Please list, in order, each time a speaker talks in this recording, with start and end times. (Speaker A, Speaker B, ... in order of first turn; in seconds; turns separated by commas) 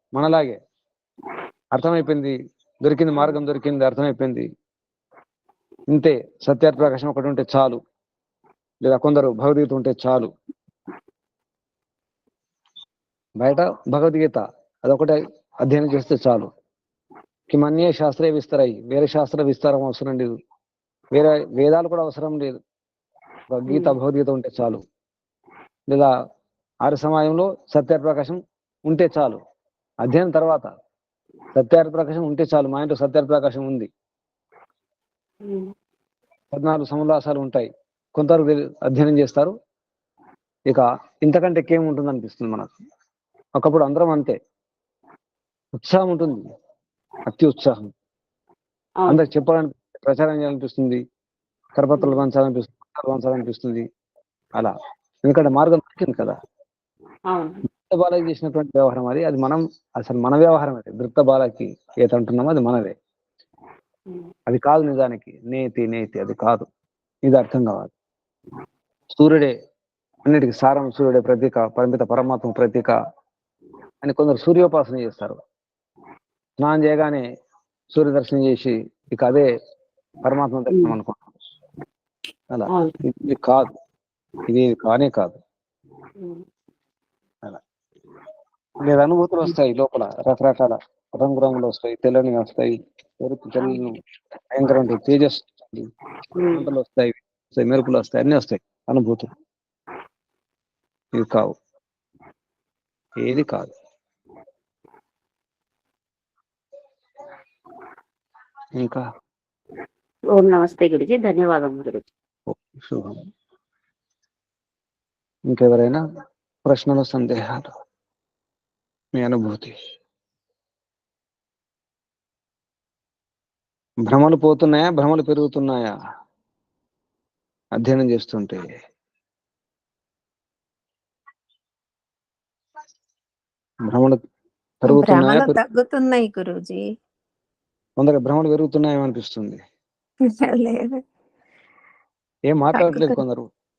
Speaker A: 0.1-0.6, Speaker A: 1.7-4.5, Speaker A: 5.9-7.8, Speaker A: 8.8-10.3, Speaker A: 13.4-16.5, Speaker A: 17.5-20.3, Speaker A: 21.1-22.6, Speaker A: 23.5-24.8, Speaker B: 23.7-24.0, Speaker A: 26.8-29.4, Speaker A: 30.0-30.7, Speaker A: 31.5-33.9, Speaker B: 35.4-35.7, Speaker A: 36.5-39.5, Speaker A: 40.7-42.7, Speaker A: 43.6-44.4, Speaker A: 45.8-46.5, Speaker A: 47.3-47.9, Speaker A: 49.1-51.0, Speaker A: 51.8-53.9, Speaker A: 55.2-56.4, Speaker B: 57.3-57.6, Speaker A: 57.9-62.9, Speaker A: 64.5-66.7, Speaker A: 67.2-67.9, Speaker A: 69.1-69.5, Speaker A: 70.2-72.9, Speaker A: 74.0-75.4, Speaker A: 76.6-77.2, Speaker A: 77.9-79.5, Speaker A: 80.2-81.2, Speaker A: 82.5-83.7, Speaker A: 84.5-85.4, Speaker A: 88.8-94.0, Speaker A: 94.5-95.9, Speaker B: 96.3-96.7, Speaker A: 96.5-99.3, Speaker A: 101.1-101.5, Speaker A: 103.2-103.7, Speaker A: 108.8-109.0, Speaker B: 110.3-112.0, Speaker A: 112.5-113.2, Speaker A: 115.5-116.0, Speaker A: 116.7-117.7, Speaker A: 119.1-119.7, Speaker A: 124.0-125.9, Speaker A: 127.8-128.7, Speaker A: 133.9-134.2, Speaker A: 134.8-135.6, Speaker C: 134.9-136.8, Speaker A: 138.0-139.6, Speaker C: 140.3-141.0, Speaker A: 142.5-143.5, Speaker C: 142.7-143.2